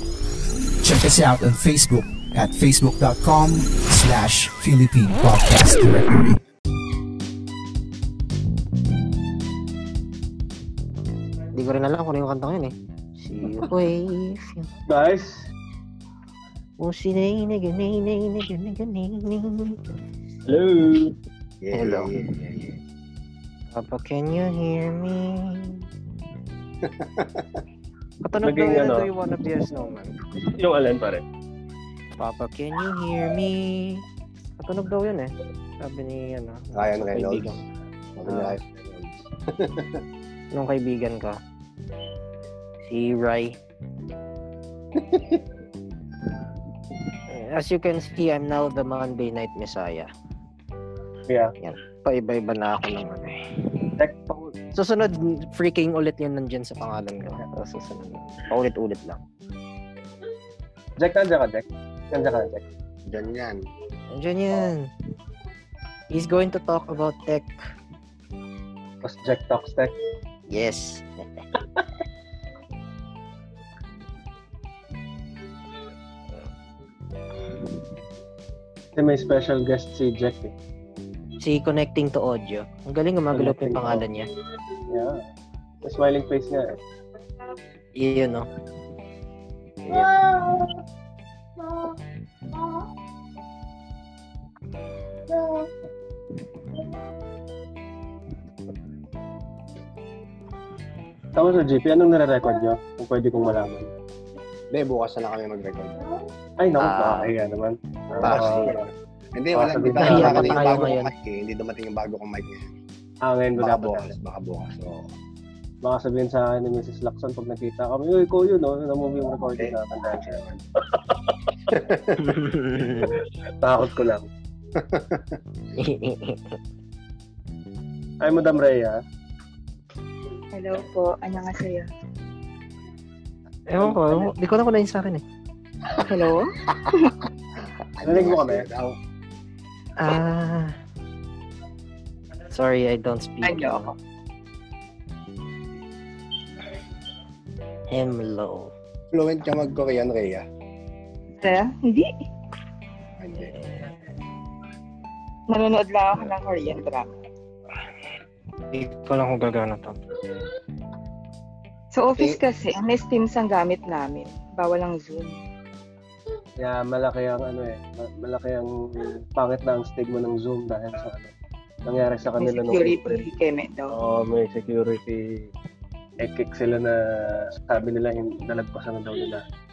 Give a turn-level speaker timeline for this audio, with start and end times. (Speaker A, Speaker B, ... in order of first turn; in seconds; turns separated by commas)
Speaker A: 0.8-6.4, Speaker B: 11.6-14.7, Speaker C: 14.9-15.5, Speaker B: 16.8-19.8, Speaker C: 20.5-21.1, Speaker D: 21.6-22.8, Speaker B: 21.7-22.1, Speaker B: 23.7-25.9, Speaker D: 26.9-27.5, Speaker B: 28.2-30.2, Speaker C: 28.4-29.1, Speaker C: 30.4-31.2, Speaker B: 32.2-34.0, Speaker B: 34.6-37.6, Speaker D: 36.7-37.6, Speaker D: 38.2-39.9, Speaker C: 38.3-38.6, Speaker B: 40.5-41.4, Speaker B: 42.9-43.6, Speaker D: 45.0-45.4, Speaker B: 47.3-50.1, Speaker C: 51.3-51.5, Speaker B: 51.6-53.4, Speaker C: 54.0-54.3, Speaker B: 54.3-59.2, Speaker C: 61.0-62.6, Speaker D: 63.1-63.6, Speaker B: 64.1-64.9, Speaker B: 66.1-67.5, Speaker C: 69.0-69.9, Speaker B: 70.5-71.4, Speaker C: 79.0-80.5, Speaker B: 81.4-84.3, Speaker C: 83.3-84.1, Speaker C: 84.9-85.2, Speaker C: 85.8-86.8, Speaker B: 88.0-88.5, Speaker B: 89.9-90.1, Speaker C: 101.3-103.9, Speaker D: 104.7-106.0, Speaker C: 106.6-108.8, Speaker B: 106.8-107.3, Speaker D: 108.1-112.7, Speaker C: 109.5-110.9, Speaker B: 110.0-111.1, Speaker C: 113.2-114.1, Speaker D: 113.5-115.1, Speaker C: 115.8-120.4, Speaker D: 119.5-120.6, Speaker C: 120.9-121.3, Speaker D: 121.7-122.3, Speaker B: 122.3-123.1, Speaker C: 123.6-124.3, Speaker D: 124.8-125.2, Speaker B: 125.8-126.5, Speaker C: 128.2-129.0, Speaker E: 130.6-131.9, Speaker B: 133.7-135.2, Speaker C: 133.8-134.3, Speaker E: 136.0-137.1, Speaker D: 137.9-139.0, Speaker C: 138.0-138.7, Speaker B: 140.0-140.8, Speaker B: 142.5-143.9, Speaker E: 143.4-143.9, Speaker B: 147.9-148.7, Speaker D: 149.1-150.4, Speaker E: 151.4-152.1, Speaker D: 153.2-153.5, Speaker E: 155.5-157.1, Speaker B: 158.7-160.0, Speaker E: 161.9-165.4, Speaker C: 166.6-171.3, Speaker C: 171.9-173.2, Speaker E: 172.4-174.0, Speaker C: 173.9-175.5, Speaker C: 176.2-179.4